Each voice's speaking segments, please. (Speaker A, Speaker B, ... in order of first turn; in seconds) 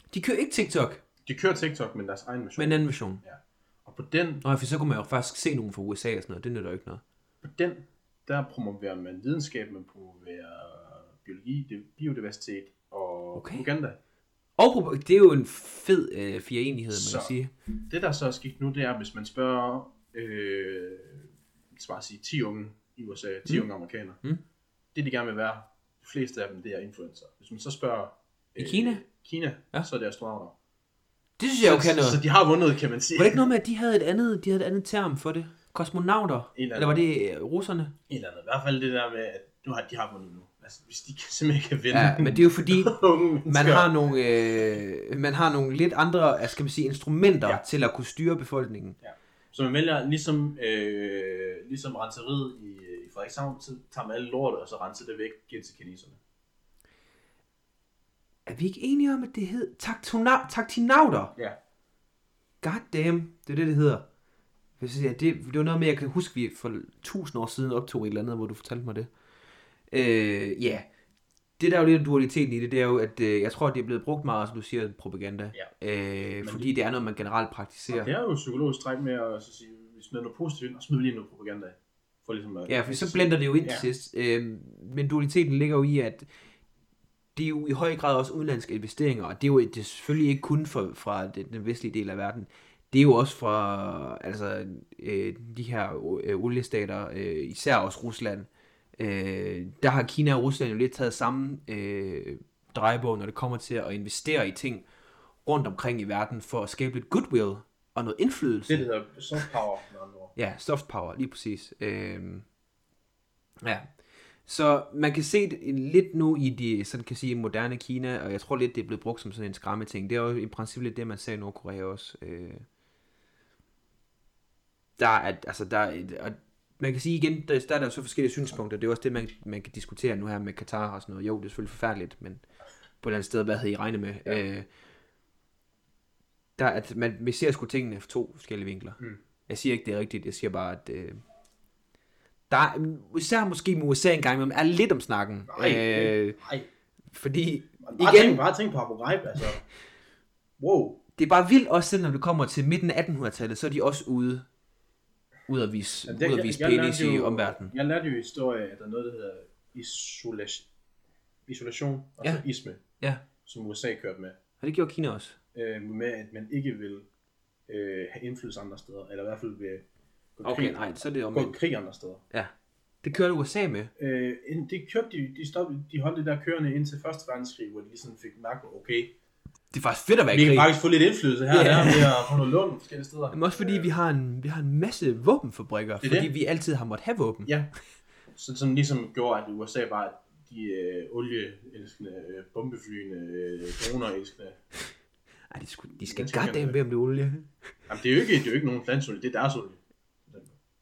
Speaker A: 0.1-1.0, 2.6-3.2, 4.4-7.0, 13.3-13.7, 14.6-17.5, 28.6-29.0, 31.4-32.2, 33.1-37.9, 41.9-49.0, 58.5-61.3, 62.6-64.0, 64.8-69.1, 69.9-70.9, 71.6-78.1, 82.7-86.3, 87.4-104.9, 105.5-108.9, 110.4-112.5, 113.6-113.9, 114.5-122.7, 125.0-132.4, 133.0-134.7, 136.6-141.2, 142.5-146.4, 147.1-148.4, 151.2-154.5, 155.5-157.7, 164.6-165.4, 170.4-171.6, 173.0-173.9, 179.7-180.7, 181.5-182.4, 183.3-187.5, 195.5-197.5
Speaker B: 1.3-4.4, 7.4-14.0, 16.9-17.3, 17.9-24.2, 24.9-30.5, 31.6-33.5, 36.5-37.0, 38.1-43.9, 49.0-56.2, 76.4-76.7, 77.9-83.9, 108.7-110.3, 145.5-146.7, 147.8-149.6, 150.6-151.0, 156.1-160.7, 161.5-162.8, 163.4-164.4, 165.5-167.1, 167.7-169.8, 170.4-170.8, 171.3-172.2, 174.0-179.1, 180.3-183.9, 186.0-186.3, 188.3-194.6, 196.1-196.8, 197.9-200.5